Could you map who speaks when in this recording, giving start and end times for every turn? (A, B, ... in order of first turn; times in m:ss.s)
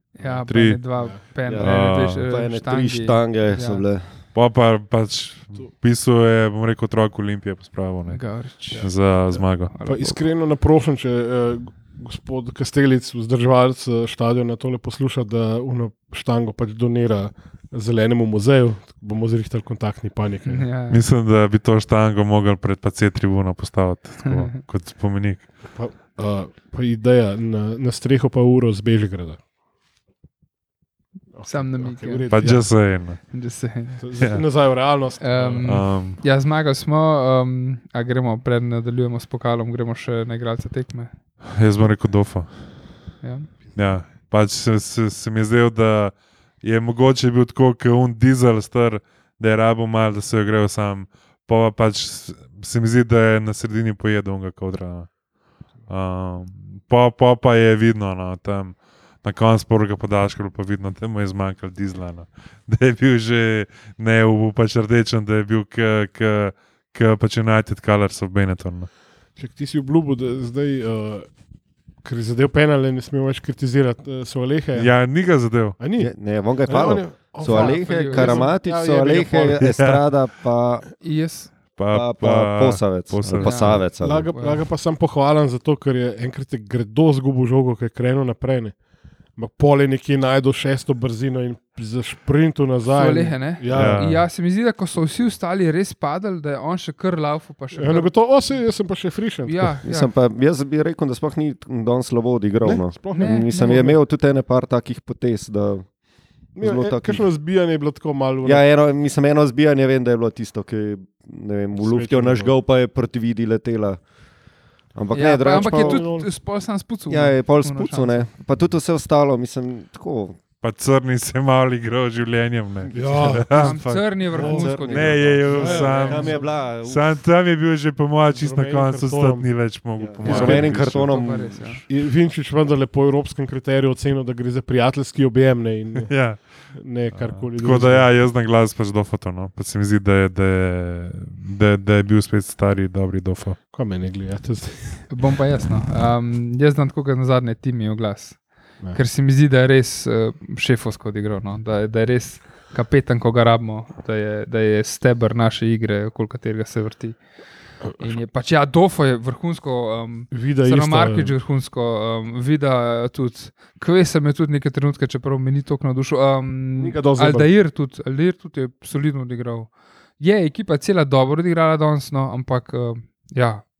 0:00.2-0:03.9 A
0:00.2-0:01.2 B
0:00.5-0:00.8 C
0:01.5-0:04.1 D
0:01.6-0:02.3 C
0:04.3-0:08.2 C
0:08.1-0:09.1 A
0:08.7-0:20.7 B
0:08.8-0:09.8 C
0:09.7-0:10.2 A
0:20.5-0:21.0 A
0:20.9-0:25.5 C
0:24.2-0:24.6 A
0:25.7-0:29.4 B
0:31.3-0:32.8 B
0:31.4-0:34.0 A
0:32.3-0:33.3 C
0:34.0-0:35.8 B
0:34.2-0:34.4 C
0:35.2-0:41.1 A
0:35.6-0:36.2 C
0:41.5-0:42.6 C
0:43.2-0:43.5 A
0:43.8-0:55.1 C
0:55.9-1:08.9 C
1:09.4-1:11.3 B
1:12.0-1:15.0 B
1:14.7-1:15.8 C
1:15.8-1:19.7 B
1:16.0-1:20.9 D
1:17.4-1:18.5 A
1:19.6-1:20.0 C
1:21.0-1:21.5 A
1:21.8-1:23.8 C
1:21.9-1:24.3 D
1:23.4-1:24.7 A
1:24.0-1:28.8 B
1:29.4-1:34.1 B
1:32.9-1:38.7 A
1:33.7-1:34.2 C
1:37.7-1:39.8 B
1:39.4-1:40.1 A
1:39.8-1:46.0 D
1:42.6-1:44.0 B
1:43.1-1:44.0 A
1:46.5-1:47.3 D
1:46.6-1:48.6 B
1:48.4-1:54.0 D
1:51.7-1:52.5 B
1:54.9-1:56.1 D
1:55.1-1:58.3 A
1:55.6-1:56.3 B
1:57.1-2:00.4 D
2:00.6-2:11.1 C
2:02.9-2:03.8 B
2:03.5-2:06.4 A
2:04.3-2:04.8 B
2:04.4-2:07.1 D
2:05.5-2:06.4 B
2:08.3-2:09.5 B
2:10.0-2:11.8 D
2:10.2-2:10.8 B
2:10.5-2:11.9 A
2:11.9-2:16.1 B
2:15.9-2:23.6 C
2:16.7-2:18.1 B
2:23.7-2:25.1 B
2:25.1-2:37.2 A
2:37.8-2:38.2 B
2:38.0-2:53.6 A
2:40.3-2:41.4 B
2:46.8-2:47.5 B